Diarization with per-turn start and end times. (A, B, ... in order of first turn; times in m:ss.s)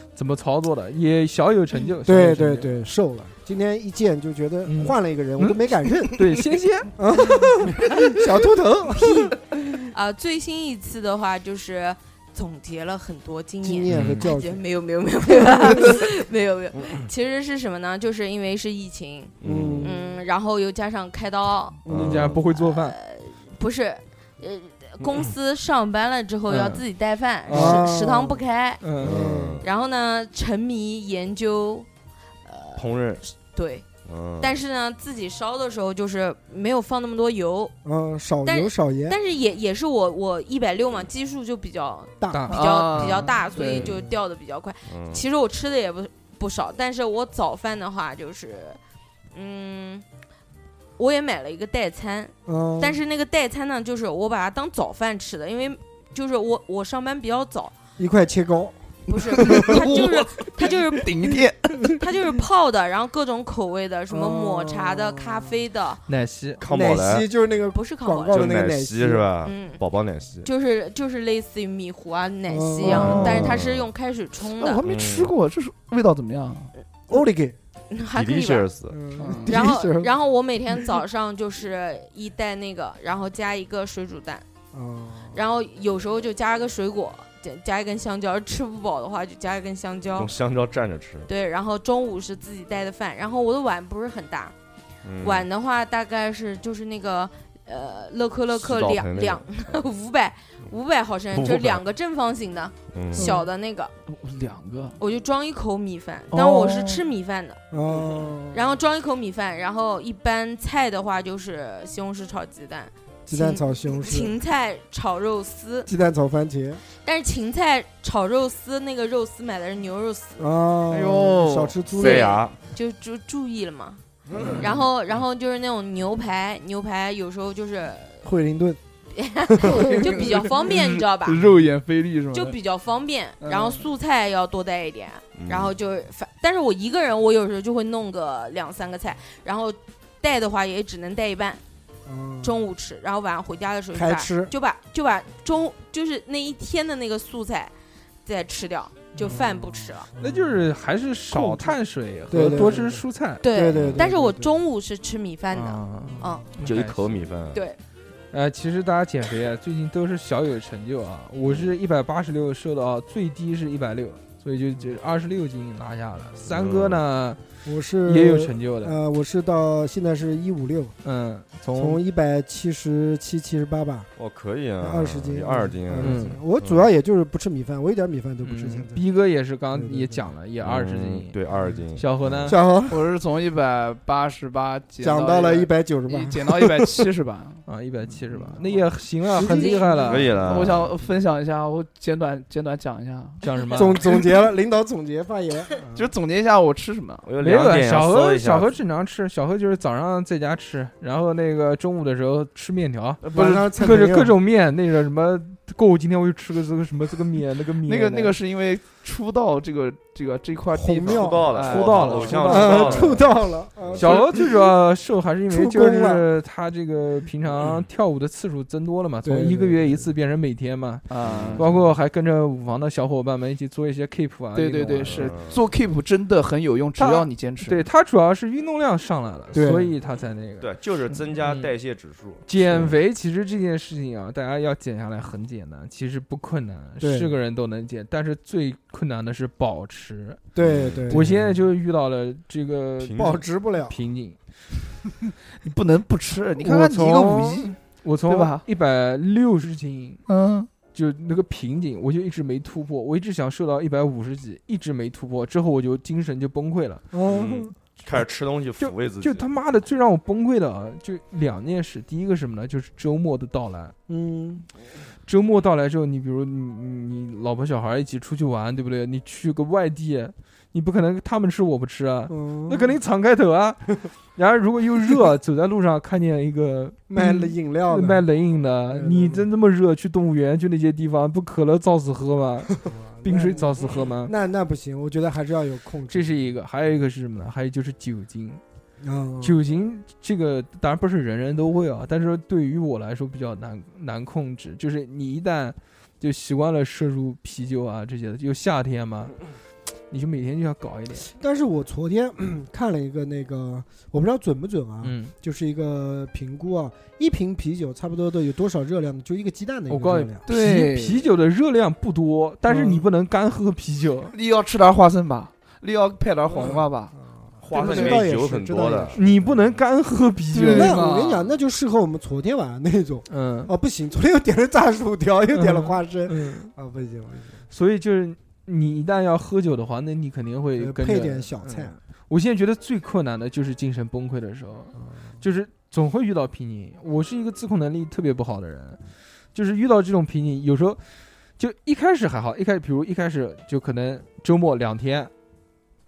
0:00.2-0:02.7 A
0:02.0-0:06.2 B
0:04.7-0:06.9 A
0:07.0-0:09.4 B
0:09.0-0:21.9 C
0:13.6-0:14.6 B
0:13.9-0:14.2 A
0:15.4-0:16.0 B
0:19.4-0:19.9 D
0:19.4-0:20.0 B
0:21.9-0:22.4 D
0:21.9-0:23.0 A
0:22.5-0:28.8 C
0:26.5-0:26.8 A
0:27.5-0:27.9 A
0:27.5-0:28.4 B
0:28.8-0:29.2 A
0:29.0-0:29.6 B
0:29.0-0:29.7 D
0:29.6-0:31.9 C
0:32.5-0:33.9 C
0:32.8-0:33.2 D
0:34.1-0:34.6 D
0:34.4-0:37.7 C
0:37.8-0:39.2 B
0:38.4-0:48.8 C
0:42.2-0:42.5 B
0:42.3-0:42.6 A
0:42.5-0:43.9 E
0:43.0-0:44.2 B
0:44.9-0:45.2 D
0:49.3-0:50.0 C
0:51.0-0:57.7 C
0:52.5-0:53.0 B
0:58.0-0:58.8 B
0:59.1-1:01.1 C
0:59.3-1:02.0 E
0:59.3-1:00.0 B
1:01.9-1:06.0 C
1:04.1-1:05.6 B
1:06.1-1:06.6 A
1:06.6-1:07.3 D
1:06.6-1:09.3 B
1:07.7-1:08.5 C
1:08.3-1:10.5 D
1:09.4-1:09.8 C
1:10.4-1:14.8 C
1:12.5-1:13.4 B
1:12.8-1:13.6 E
1:12.9-1:13.9 D
1:14.6-1:16.7 E
1:14.8-1:15.3 D
1:17.1-1:17.6 B
1:17.9-1:18.7 C
1:18.1-1:19.0 D
1:18.9-1:20.1 B
1:19.2-1:19.6 E
1:19.5-1:24.4 C
1:24.7-1:25.4 B
1:25.3-1:30.3 C
1:30.2-1:31.3 D
1:31.3-1:34.5 C
1:35.0-1:35.5 D
1:35.2-1:43.9 C
1:38.5-1:39.8 D
1:41.3-1:41.8 D
1:42.9-1:43.3 D
1:44.1-1:45.0 E
1:45.0-1:47.6 C
1:46.3-1:47.0 E
1:47.7-1:48.7 B
1:48.5-1:55.9 C
1:53.3-1:54.3 B
1:55.9-1:56.8 B
1:57.0-2:00.5 C
2:00.4-2:02.3 B
2:00.9-2:01.8 E
2:01.9-2:02.6 D
2:02.0-2:04.0 C
2:04.3-2:04.8 B
2:04.4-2:04.7 E
2:04.6-2:08.3 C
2:08.2-2:08.8 B
2:09.2-2:11.4 C
2:09.5-2:09.8 B
2:09.7-2:12.6 E
2:12.3-2:21.6 C
2:13.4-2:13.8 E
2:15.4-2:15.7 D
2:22.1-2:22.6 B
2:22.4-2:27.7 C
2:23.9-2:24.5 B
2:28.3-2:30.1 C
2:29.2-2:30.6 B
2:30.2-2:33.4 A
2:31.3-2:31.8 B
2:32.3-2:34.6 B
2:33.4-2:36.5 C
2:33.7-2:34.0 D
2:35.5-2:37.0 A
2:36.1-2:36.5 B
2:36.6-2:37.6 D
2:37.5-2:37.8 C
2:38.3-2:47.4 A
2:41.5-2:41.7 D
2:46.4-2:47.0 D
2:47.6-2:51.0 B
2:48.0-2:49.0 A
2:51.0-2:52.0 A
2:51.8-2:54.1 B
2:54.2-2:56.9 D
2:54.8-2:59.0 B
2:56.0-2:56.4 A
2:58.4-3:01.4 A
2:59.7-3:00.3 B
3:00.6-3:02.5 D
3:01.5-3:03.0 B
3:02.0-3:02.6 A
3:02.9-3:07.6 E
3:05.0-3:06.9 B
3:07.7-3:10.3 A
3:08.3-3:08.6 B
3:09.3-3:10.3 B
3:09.4-3:10.2 C
3:10.1-3:10.9 D
3:10.4-3:13.8 E
3:13.4-3:14.0 A
3:13.7-3:16.1 B
3:15.9-3:17.3 E
3:17.3-3:18.7 D
3:17.4-3:28.3 A
3:23.2-3:23.7 E
3:23.3-3:24.4 B
3:27.8-3:33.0 E
3:30.7-3:31.6 B
3:31.1-3:34.1 D
3:31.6-3:33.1 A
3:32.4-3:34.6 B
3:34.0-3:41.0 A
3:35.5-3:36.3 B
3:39.2-3:40.1 B
3:41.1-3:41.8 E
3:41.2-3:41.6 D
3:41.6-3:45.3 A
3:44.5-3:47.9 E
3:45.0-3:45.6 D
3:47.0-3:50.7 A
3:49.5-3:50.0 B
3:50.6-3:53.0 D
3:51.4-3:51.7 A
3:52.5-4:00.5 A
3:57.0-3:57.4 B
4:00.5-4:01.6 B
4:00.6-4:01.2 D
4:01.1-4:04.4 A
4:03.0-4:03.4 D
4:03.1-4:04.0 B
4:05.6-4:08.6 E
4:06.6-4:07.5 B
4:06.6-4:10.2 A
4:10.3-4:10.7 E
4:10.9-4:17.0 A
4:17.1-4:17.7 B
4:17.3-4:19.5 D
4:18.8-4:24.0 A
4:24.1-4:24.6 B
4:25.3-4:44.3 A
4:32.3-4:33.0 B
4:37.1-4:38.3 B
4:38.9-4:39.5 B
4:42.8-4:46.5 B
4:46.1-4:48.6 A
4:49.0-4:49.6 B
4:49.4-4:59.4 A
5:00.1-5:01.3 A
5:01.2-5:10.4 B
5:05.0-5:05.3 A
5:09.9-5:14.3 A
5:10.5-5:11.3 E
5:12.7-5:13.0 B
5:14.3-5:17.2 E
5:16.5-5:19.4 B
5:17.6-5:19.6 D
5:17.7-5:18.3 E
5:19.2-5:21.0 A
5:20.5-5:21.5 E
5:20.7-5:27.6 B
5:23.3-5:23.7 A
5:25.5-5:26.7 A
5:27.7-5:39.0 A
5:30.8-5:32.0 B
5:35.0-5:35.4 B
5:39.5-5:41.0 A
5:41.6-5:45.3 A